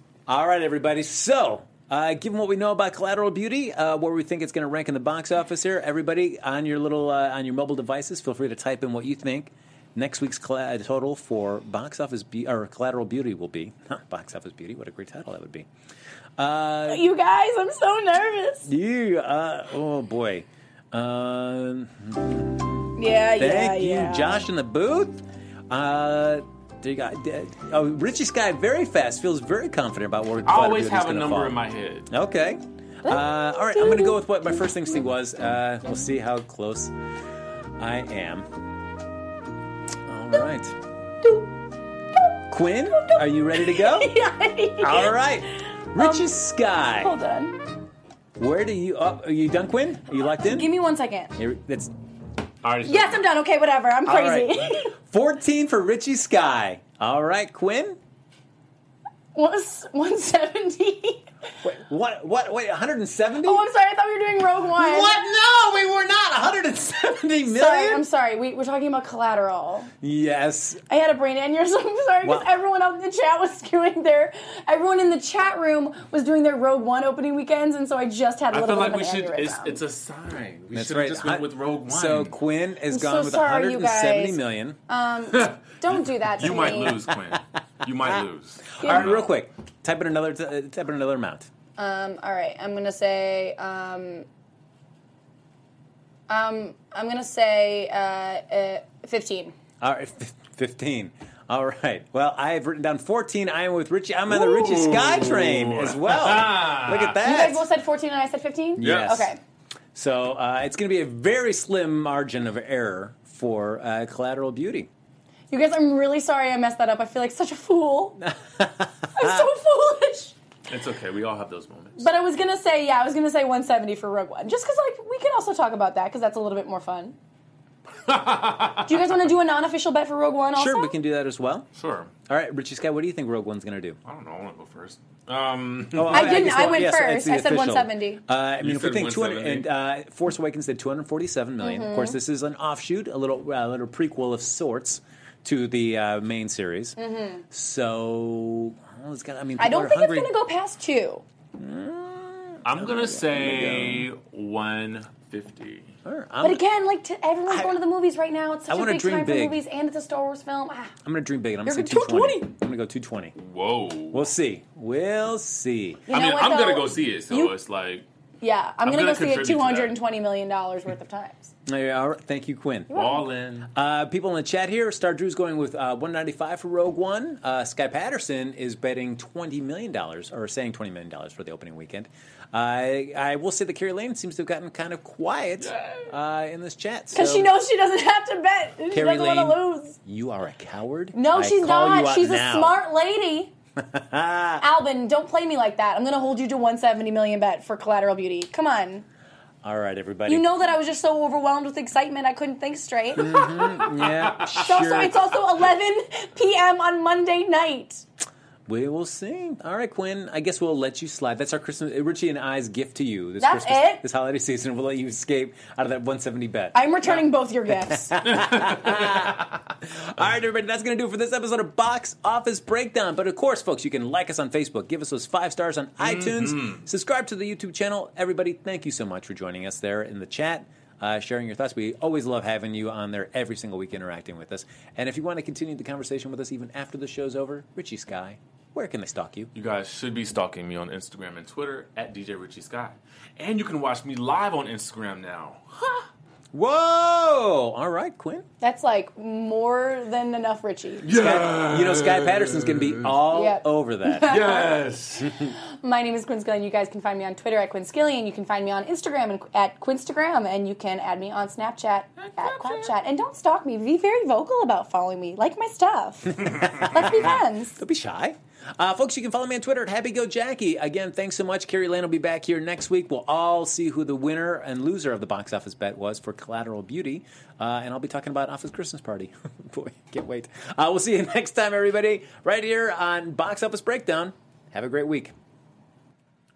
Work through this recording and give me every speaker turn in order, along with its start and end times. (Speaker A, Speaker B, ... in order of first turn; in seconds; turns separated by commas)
Speaker A: 0.3-15.7, Speaker A: 16.4-17.1, Speaker B: 16.9-18.7, Speaker A: 18.6-36.9, Speaker B: 22.9-24.4, Speaker C: 30.4-32.1, Speaker B: 33.1-34.2, Speaker A: 37.8-38.5, Speaker A: 40.0-40.8, Speaker A: 42.5-44.1, Speaker B: 42.9-46.4, Speaker A: 44.8-47.1, Speaker B: 46.9-47.6, Speaker A: 48.4-50.7, Speaker B: 50.2-51.3, Speaker A: 51.4-51.9, Speaker C: 52.6-53.2, Speaker B: 52.9-54.9, Speaker A: 54.0-58.0, Speaker B: 59.3-61.3, Speaker A: 61.6-63.6, Speaker B: 63.4-65.2, Speaker A: 64.8-68.0, Speaker B: 67.5-69.9, Speaker A: 70.0-70.8, Speaker B: 70.9-79.8, Speaker A: 72.2-72.5, Speaker C: 78.5-82.3, Speaker A: 80.7-84.8, Speaker B: 82.9-87.0, Speaker C: 86.4-89.3, Speaker A: 88.7-91.5, Speaker B: 88.8-89.1, Speaker B: 91.8-94.2, Speaker B: 96.3-99.5, Speaker A: 99.8-107.6, Speaker C: 104.3-107.2, Speaker B: 107.2-109.4, Speaker A: 108.8-109.3, Speaker C: 108.8-109.3, Speaker A: 109.9-114.9, Speaker B: 115.5-118.3, Speaker A: 118.2-119.5, Speaker B: 119.1-120.3, Speaker C: 120.7-122.1, Speaker B: 122.0-127.2, Speaker C: 128.0-129.1, Speaker B: 128.8-130.9, Speaker A: 130.5-131.7, Speaker C: 131.7-132.1, Speaker A: 132.3-134.0, Speaker C: 134.0-136.9, Speaker A: 135.9-147.0, Speaker B: 136.1-138.2, Speaker C: 138.6-139.7, Speaker B: 141.6-142.2, Speaker B: 147.0-147.4, Speaker A: 147.5-150.3, Speaker B: 149.6-151.2, Speaker A: 151.6-154.1, Speaker C: 152.6-155.9, Speaker A: 156.0-156.6, Speaker B: 156.4-160.9, Speaker A: 157.5-157.8, Speaker A: 158.7-159.6, Speaker A: 161.0-163.3, Speaker B: 161.6-162.5, Speaker C: 163.3-164.3, Speaker A: 164.1-166.0, Speaker B: 166.1-167.5, Speaker C: 166.1-168.1, Speaker B: 168.4-171.5, Speaker C: 168.8-169.9, Speaker A: 171.7-172.9, Speaker B: 172.9-173.2, Speaker C: 172.9-173.7, Speaker A: 173.7-187.5, Speaker C: 185.6-186.1, Speaker B: 187.1-190.0, Speaker A: 188.9-192.8, Speaker B: 191.1-193.5, Speaker A: 193.8-194.6, Speaker B: 194.6-199.0, Speaker A: 199.6-200.5, Speaker B: 200.3-208.0, Speaker A: 203.2-205.2, Speaker A: 208.7-216.8, Speaker B: 213.4-214.0, Speaker B: 216.7-218.2, Speaker A: 218.1-239.5, Speaker C: 218.5-219.3, Speaker C: 226.0-226.8, Speaker C: 239.5-246.1, Speaker A: 246.5-248.4, Speaker B: 248.6-251.1, Speaker C: 251.0-253.1, Speaker A: 251.1-254.3, Speaker B: 253.3-254.8, Speaker C: 254.2-255.3, Speaker B: 255.3-267.8, Speaker C: 262.2-262.9, Speaker A: 266.3-285.3